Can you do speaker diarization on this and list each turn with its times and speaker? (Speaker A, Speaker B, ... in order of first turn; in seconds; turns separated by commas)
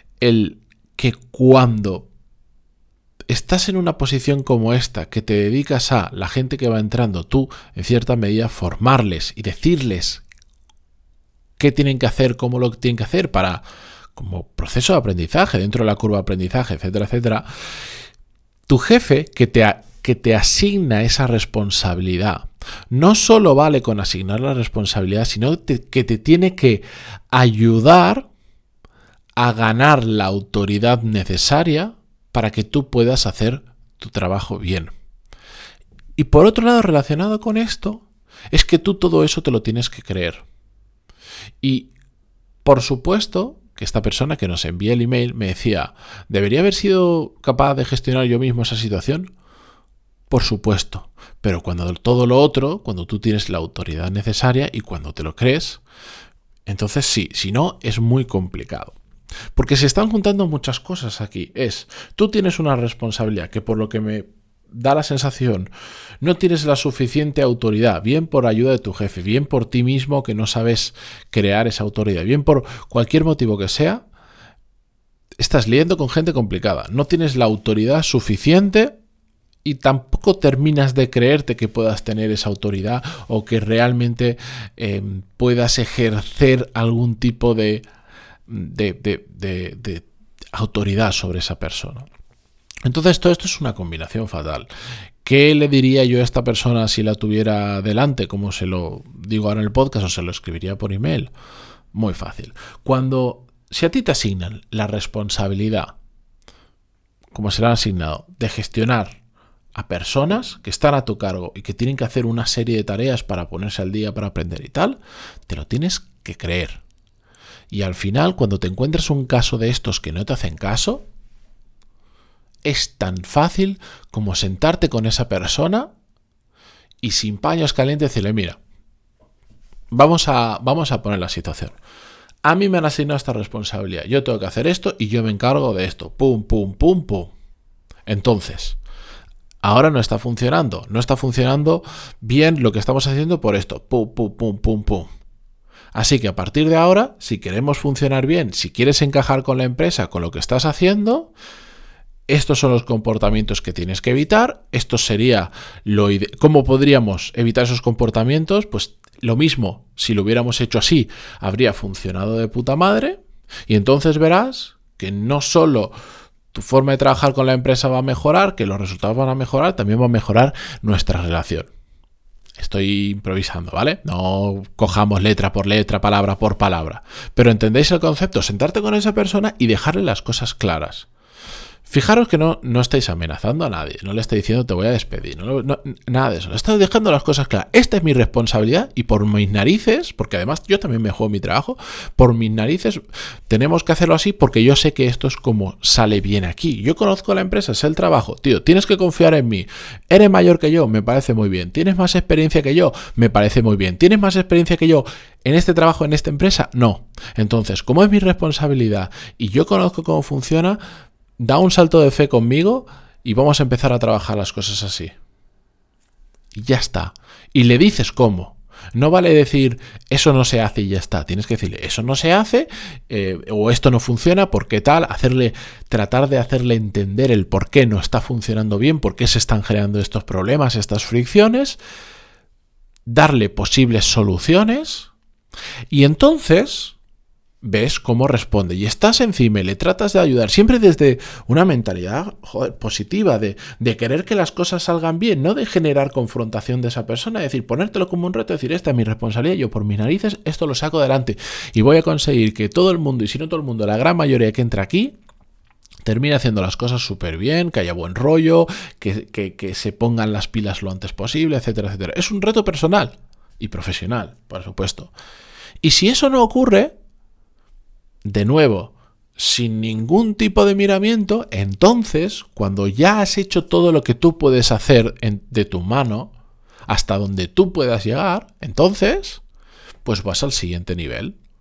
Speaker A: 0.2-2.1, Speaker A: 3.3-10.2, Speaker A: 11.6-13.6, Speaker A: 14.2-17.5, Speaker A: 18.7-28.3, Speaker A: 29.4-34.9, Speaker A: 36.2-40.4, Speaker A: 41.6-41.9, Speaker A: 42.6-49.3, Speaker A: 50.3-55.8, Speaker A: 56.7-59.0, Speaker A: 59.5-65.7, Speaker A: 66.2-74.0, Speaker A: 75.4-79.0, Speaker A: 79.6-87.8, Speaker A: 88.5-92.1, Speaker A: 92.9-94.7, Speaker A: 95.2-101.3, Speaker A: 101.9-106.0, Speaker A: 107.3-109.2, Speaker A: 109.8-116.8, Speaker A: 117.7-121.1, Speaker A: 122.7-125.9, Speaker A: 127.0-128.6, Speaker A: 129.9-131.8, Speaker A: 132.4-137.3, Speaker A: 138.1-138.8, Speaker A: 139.6-145.1, Speaker A: 145.9-151.3, Speaker A: 152.3-165.9, Speaker A: 166.5-171.7, Speaker A: 172.6-181.1, Speaker A: 181.9-210.8, Speaker A: 211.4-215.1, Speaker A: 216.6-231.8, Speaker A: 233.1-235.1, Speaker A: 235.9-237.0, Speaker A: 237.6-255.2, Speaker A: 256.0-265.1, Speaker A: 265.8-266.9, Speaker A: 268.2-276.3, Speaker A: 276.9-279.4, Speaker A: 280.1-281.4